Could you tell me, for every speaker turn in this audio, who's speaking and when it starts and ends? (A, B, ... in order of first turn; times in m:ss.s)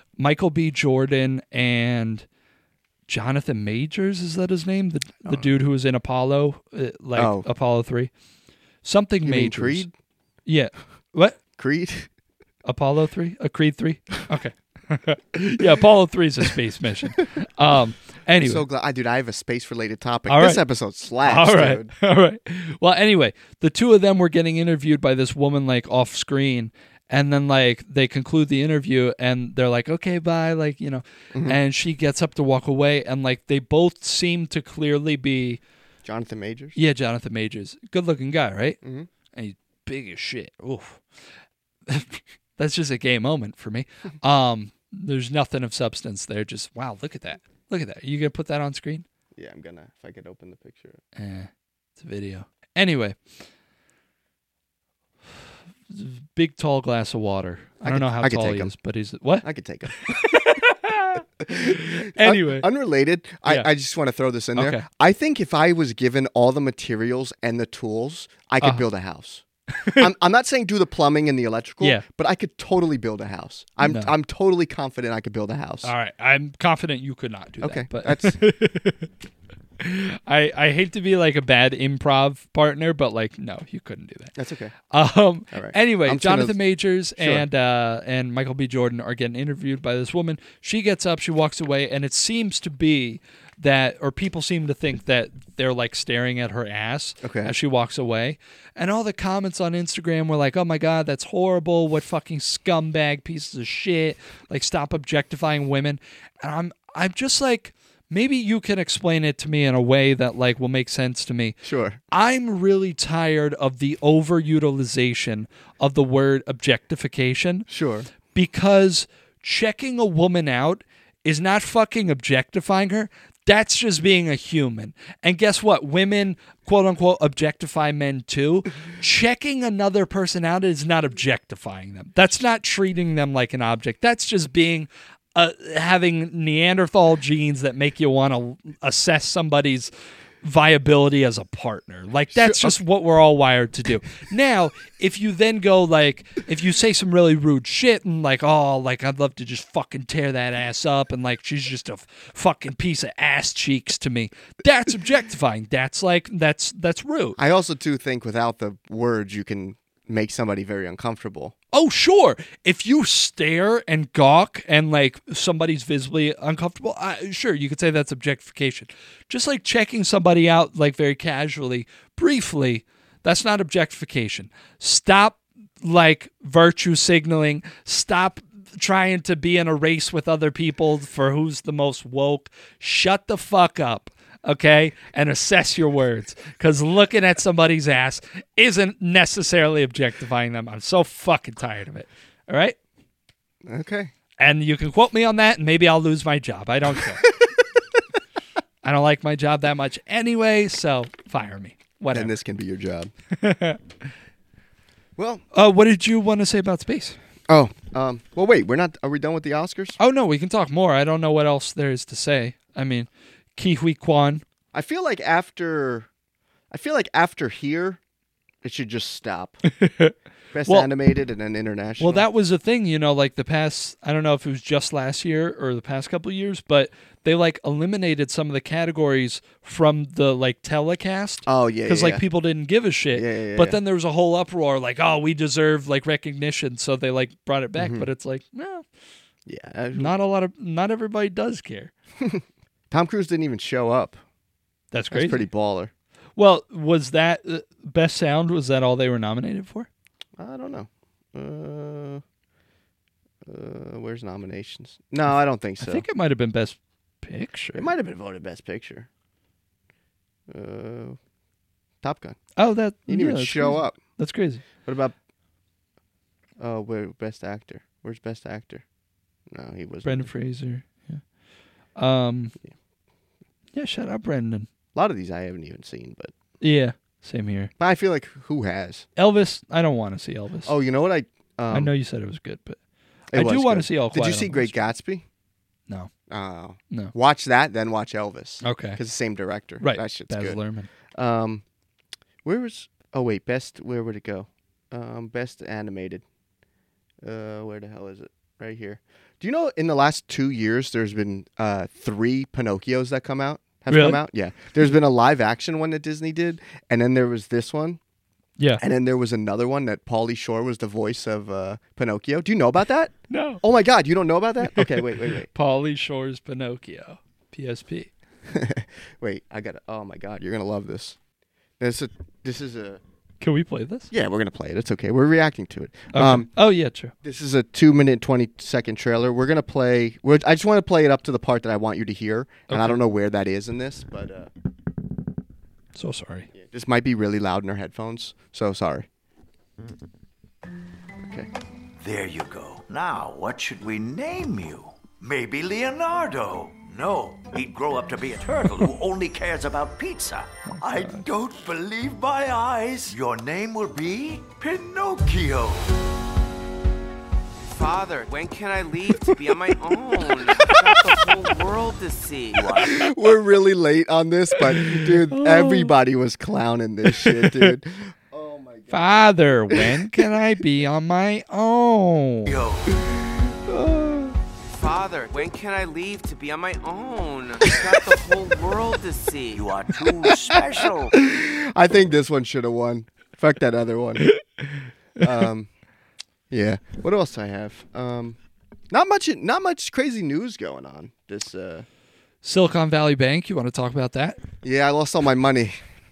0:00.2-0:02.2 A
0:03.1-0:08.1 A
0:07.2-0:07.4 B
0:08.8-0:09.9 A
0:09.2-0:09.9 B
0:10.4-0:11.4 A
0:11.6-0:12.1 B
0:12.6-0:18.6 A
0:18.4-0:21.9 B
0:20.3-0:20.6 A
0:21.2-0:35.6 A
0:36.0-0:36.8 B
0:36.8-0:38.8 A
0:38.8-0:39.1 B
0:39.3-0:41.0 A
0:41.9-0:49.0 A
0:49.4-0:51.0 B
0:51.2-0:53.2 A
0:55.9-1:02.7 A
0:57.8-0:58.7 B
0:59.4-1:00.2 B
1:01.4-1:09.4 B
1:04.6-1:04.8 A
1:09.8-1:10.1 A
1:10.0-1:15.9 B
1:13.8-1:14.1 A
1:15.8-1:19.1 A
1:17.6-1:18.4 B
1:19.8-1:24.3 A
1:24.4-1:24.7 B
1:24.9-1:51.6 A
1:25.5-1:26.6 B
1:27.2-1:27.4 B
1:37.2-1:37.5 B
1:51.6-1:52.0 B
1:52.1-1:57.7 A
1:57.7-1:58.1 B
1:58.3-2:19.9 A
2:20.4-2:37.4 A
2:22.3-2:22.8 B
2:37.4-2:41.5 B
2:41.7-3:12.8 A
3:13.6-3:14.1 B
3:14.4-3:17.3 A
3:18.8-3:22.4 A
3:22.1-3:23.1 B
3:23.3-3:23.8 A
3:25.2-3:25.4 B
3:25.5-3:27.2 A
3:27.5-3:30.0 B
3:30.0-3:34.4 A
3:34.7-3:36.1 B
3:36.7-3:38.0 B
3:38.6-3:39.6 B
3:39.7-3:40.1 A
3:40.5-3:42.2 B
3:42.0-3:58.8 A
3:51.4-3:52.2 B
3:53.1-3:53.8 B
3:57.8-3:58.1 B
3:59.4-4:00.1 B
3:59.9-4:01.9 A
4:02.2-4:04.2 B
4:04.9-4:05.5 A
4:05.1-4:05.9 B
4:06.4-4:09.9 A
4:10.4-4:12.2 B
4:13.4-4:16.0 B
4:15.8-4:17.9 A
4:17.7-4:19.1 B
4:20.5-4:21.2 B
4:22.0-4:22.4 B
4:22.6-4:24.6 A
4:23.1-4:24.0 B
4:24.8-4:25.1 B
4:26.6-4:28.8 B
4:29.5-4:30.3 B
4:30.0-4:31.2 A
4:32.0-4:32.5 A
4:33.7-4:34.7 A
4:34.9-4:36.3 B
4:36.6-4:37.7 A
4:37.8-4:39.1 B
4:39.2-4:40.7 A
4:40.6-4:41.9 B
4:41.7-4:42.8 A
4:43.3-4:45.2 B
4:43.3-4:44.8 A
4:46.3-4:50.6 B
4:48.6-4:49.0 A
4:49.8-4:50.9 A
4:51.1-4:51.6 B
4:52.4-4:56.2 B
4:57.2-5:08.0 B
5:03.9-5:04.2 A
5:08.8-5:15.5 B
5:13.3-5:13.6 A
5:14.7-5:18.1 A
5:18.5-5:21.2 B
5:21.8-5:23.0 B
5:23.4-5:24.1 A
5:24.1-5:26.5 B
5:26.1-5:27.1 A
5:27.2-5:34.5 B
5:32.7-5:33.0 A
5:35.9-5:36.5 A
5:36.5-5:39.1 B
5:42.0-5:56.0 C
5:50.7-5:51.2 A
5:57.7-6:02.8 D
6:02.5-6:03.1 C
6:02.8-6:09.1 B
6:04.6-6:05.9 A
6:07.0-6:07.7 A
6:08.9-6:12.5 A
6:12.5-6:13.0 C
6:13.7-6:14.3 B
6:14.7-6:19.7 D
6:19.5-6:21.2 C
6:21.1-6:24.3 B
6:24.2-6:24.8 A
6:25.2-6:25.7 B
6:26.5-6:28.4 B
6:28.9-6:31.8 B
6:32.4-6:34.4 A
6:34.6-6:35.8 B